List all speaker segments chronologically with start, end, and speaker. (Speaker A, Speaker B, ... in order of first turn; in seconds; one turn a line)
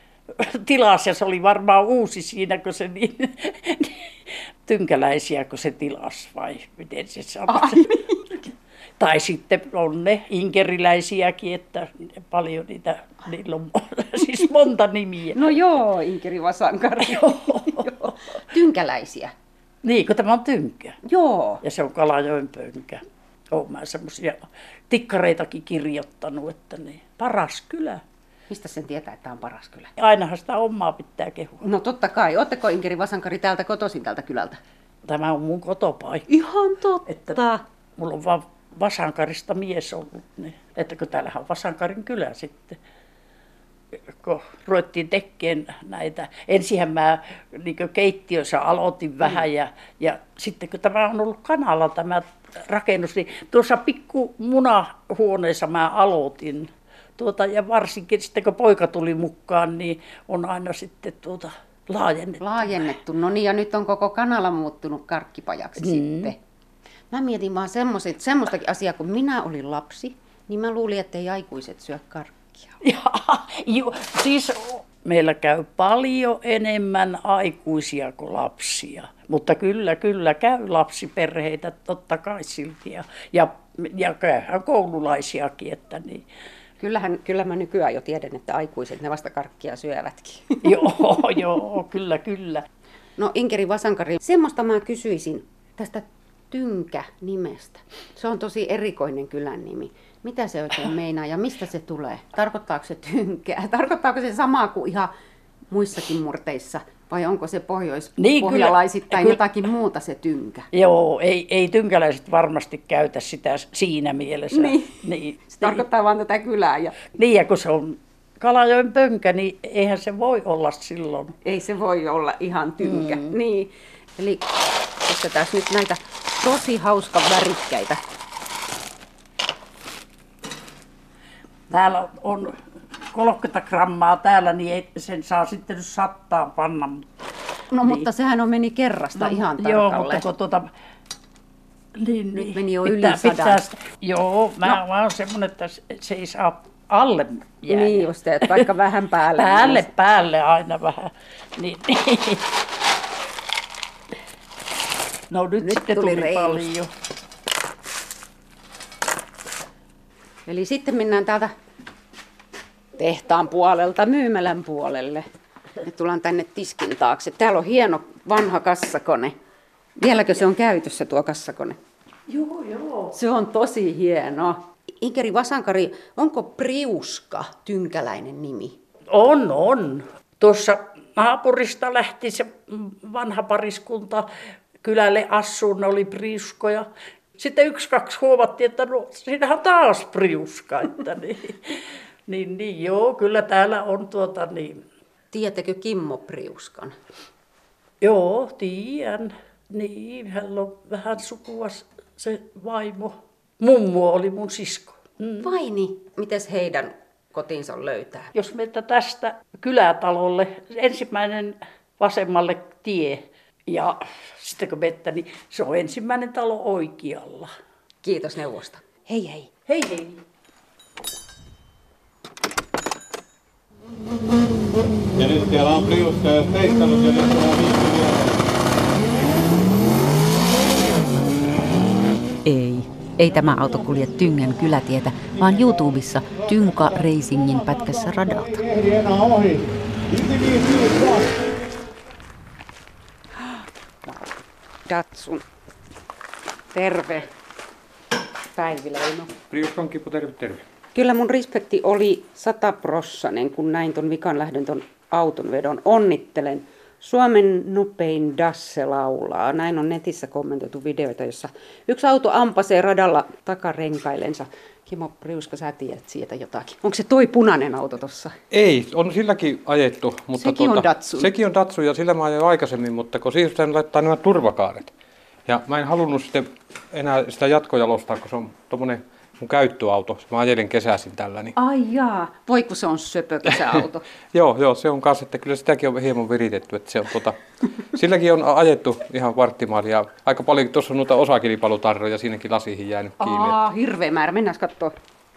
Speaker A: 0.3-7.9
Speaker B: 7.5-8.2
Speaker A: 9.0-15.4
Speaker B: 15.3-19.3
Speaker A: 17.0-17.9
Speaker A: 19.8-20.9
Speaker B: 21.0-21.6
Speaker A: 21.6-28.0
Speaker B: 28.5-29.9
Speaker A: 30.0-31.6
Speaker B: 31.6-34.6
Speaker A: 35.0-36.2
Speaker B: 36.3-37.6
Speaker A: 37.1-37.4
Speaker A: 38.0-42.8
Speaker A: 44.1-62.4
Speaker B: 62.4-66.4
Speaker A: 65.8-66.3
Speaker B: 67.1-72.7
Speaker A: 72.8-86.2
Speaker B: 86.8-90.9
Speaker A: 90.6-92.6
Speaker B: 93.2-105.1
Speaker B: 105.7-110.7
Speaker A: 108.2-109.4
Speaker A: 110.7-115.8
Speaker B: 114.5-114.9
Speaker B: 115.5-117.0
Speaker A: 117.1-121.3
Speaker B: 121.4-124.5
Speaker A: 122.8-123.3
Speaker B: 125.0-128.0
Speaker A: 131.7-132.5
Speaker A: 133.1-137.1
Speaker B: 137.7-140.2
Speaker A: 139.2-140.7
Speaker A: 141.9-148.6
Speaker B: 142.3-143.6
Speaker B: 147.7-149.9
Speaker A: 149.4-152.5
Speaker A: 155.3-156.9
Speaker B: 155.6-156.7
Speaker B: 160.5-161.5
Speaker B: 163.0-165.2
Speaker B: 165.8-169.3
Speaker B: 170.0-171.8
Speaker A: 172.3-173.1
Speaker B: 173.1-178.7
Speaker A: 179.1-184.3
Speaker A: 184.8-194.8
Speaker B: 195.3-196.9
Speaker A: 198.0-205.5
Speaker B: 205.4-208.3
Speaker A: 208.3-217.5
Speaker B: 218.0-219.5
Speaker A: 219.7-220.2
Speaker C: 225.2-228.4
Speaker D: 232.4-238.9
Speaker B: 243.4-244.3
Speaker B: 244.9-245.4
Speaker B: 246.7-247.3
Speaker B: 248.5-249.3
Speaker E: 249.5-250.6
Speaker B: 250.9-268.3
Speaker E: 268.5-274.9
Speaker B: 270.4-271.3
Speaker E: 275.4-281.5
Speaker B: 281.6-284.0
Speaker E: 284.3-287.4
Speaker E: 287.9-293.6
Speaker B: 293.2-294.9